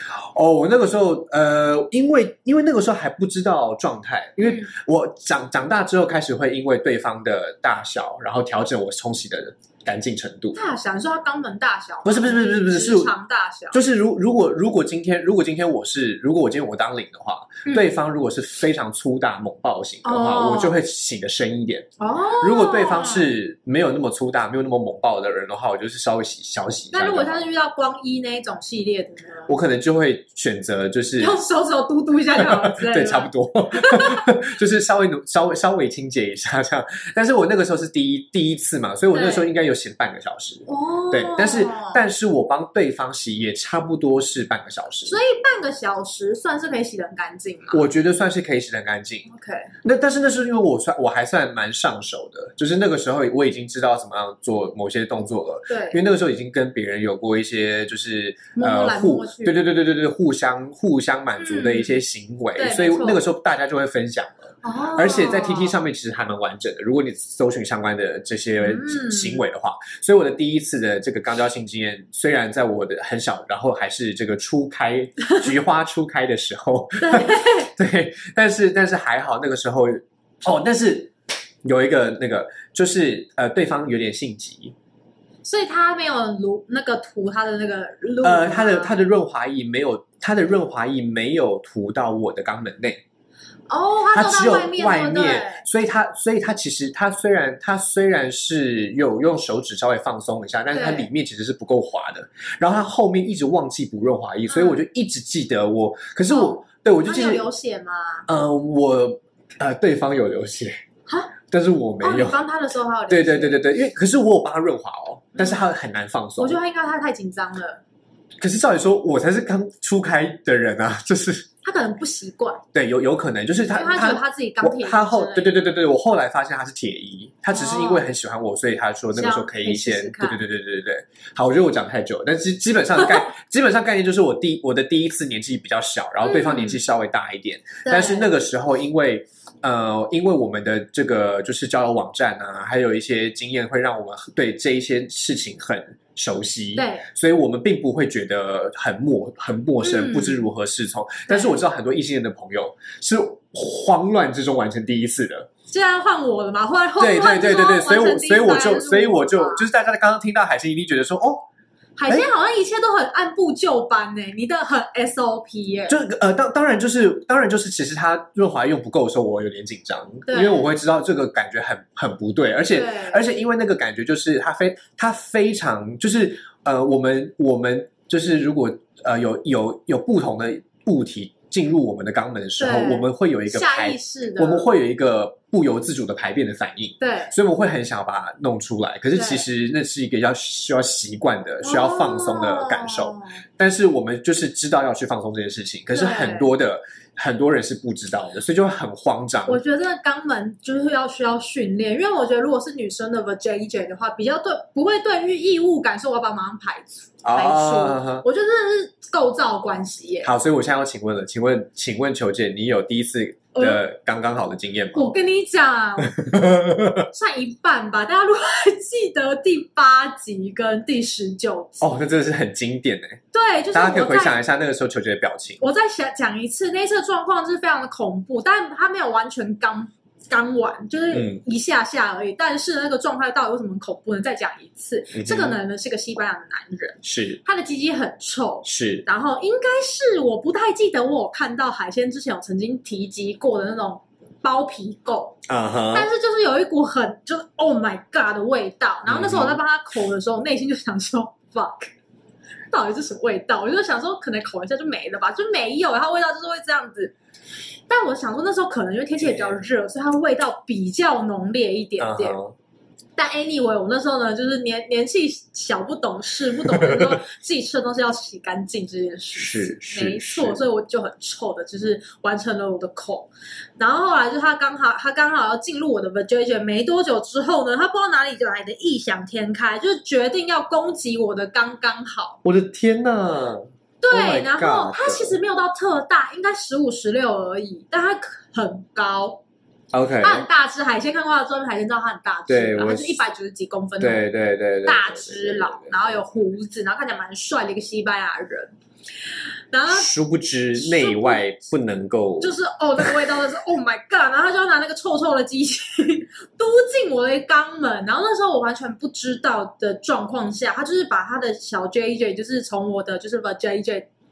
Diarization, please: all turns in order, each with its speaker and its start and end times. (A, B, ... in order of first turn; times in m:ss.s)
0:00.2-0:10.6 A
0:04.4-0:04.7 B
0:10.5-0:13.8 B
0:12.0-0:13.1 A
0:13.7-0:21.9 A
0:20.0-0:20.8 B
0:22.0-0:23.3 B
0:22.4-0:27.4 A
0:26.9-0:29.5 B
0:29.5-0:31.4 A
0:31.2-0:34.3 B
0:32.4-0:45.2 A
0:39.1-0:39.5 B
0:40.7-0:42.0 B
0:45.0-0:47.8 B
0:47.7-0:49.3 A
0:49.3-0:49.7 B
0:49.8-1:21.1 A
0:55.7-0:56.0 B
0:58.6-0:59.6 B
1:01.4-1:02.0 B
1:02.6-1:03.3 B
1:04.6-1:05.8 B
1:08.6-1:09.4 B
1:17.0-1:17.7 B
1:21.6-1:24.7 A
1:25.4-1:29.0 B
1:28.2-1:33.0 A
1:33.7-1:35.6 B
1:34.1-1:47.4 A
1:40.7-1:41.1 B
1:44.5-1:44.8 B
1:46.3-1:48.2 B
1:48.2-1:50.8 A
1:51.1-1:51.3 B
1:51.5-1:52.4 A
1:52.0-1:53.6 B
1:53.1-1:56.6 A
1:56.4-1:57.8 B
1:58.4-2:01.5 A
2:01.6-2:02.6 B
2:02.7-2:35.5 A
2:03.7-2:05.6 B
2:07.5-2:08.0 B
2:09.1-2:10.4 B
2:16.2-2:16.8 B
2:17.8-2:18.3 B
2:26.8-2:27.0 B
2:29.8-2:30.4 B
2:31.3-2:31.6 B
2:35.7-2:39.6 B
2:37.0-2:41.4 A
2:42.0-2:46.0 B
2:45.9-3:19.6 A
2:50.3-2:50.7 B
2:52.7-2:53.2 B
3:02.6-3:04.7 B
3:07.0-3:07.3 B
3:09.1-3:09.4 B
3:11.6-3:13.4 B
3:15.9-3:16.5 B
3:19.5-3:30.3 B
3:27.2-3:28.2 A
3:30.2-3:35.1 A
3:33.5-3:33.8 B
3:34.9-3:36.1 B
3:36.2-3:37.0 A
3:37.1-3:41.9 B
3:41.8-3:43.2 A
3:43.3-3:44.4 B
3:43.7-3:45.6 A
3:45.6-4:05.4 B
3:51.1-3:51.4 A
3:55.1-3:55.6 A
3:57.0-3:57.4 A
3:58.6-3:59.0 A
4:05.5-4:06.1 A
4:05.9-4:11.9 B
4:09.0-4:09.6 A
4:12.7-4:17.1 B
4:17.9-4:22.4 B
4:22.0-4:22.5 A
4:23.2-4:42.4 B
4:26.7-4:27.1 A
4:29.4-4:30.6 A
4:42.4-4:45.4 A
4:44.0-4:49.4 B
4:49.9-4:50.4 A
4:50.2-4:54.2 B
4:52.5-4:53.2 A
4:54.0-4:55.9 A
4:54.8-4:58.7 B
4:59.7-5:00.1 B
4:59.9-5:02.5 A
5:00.8-5:01.4 B
5:02.4-5:14.1 B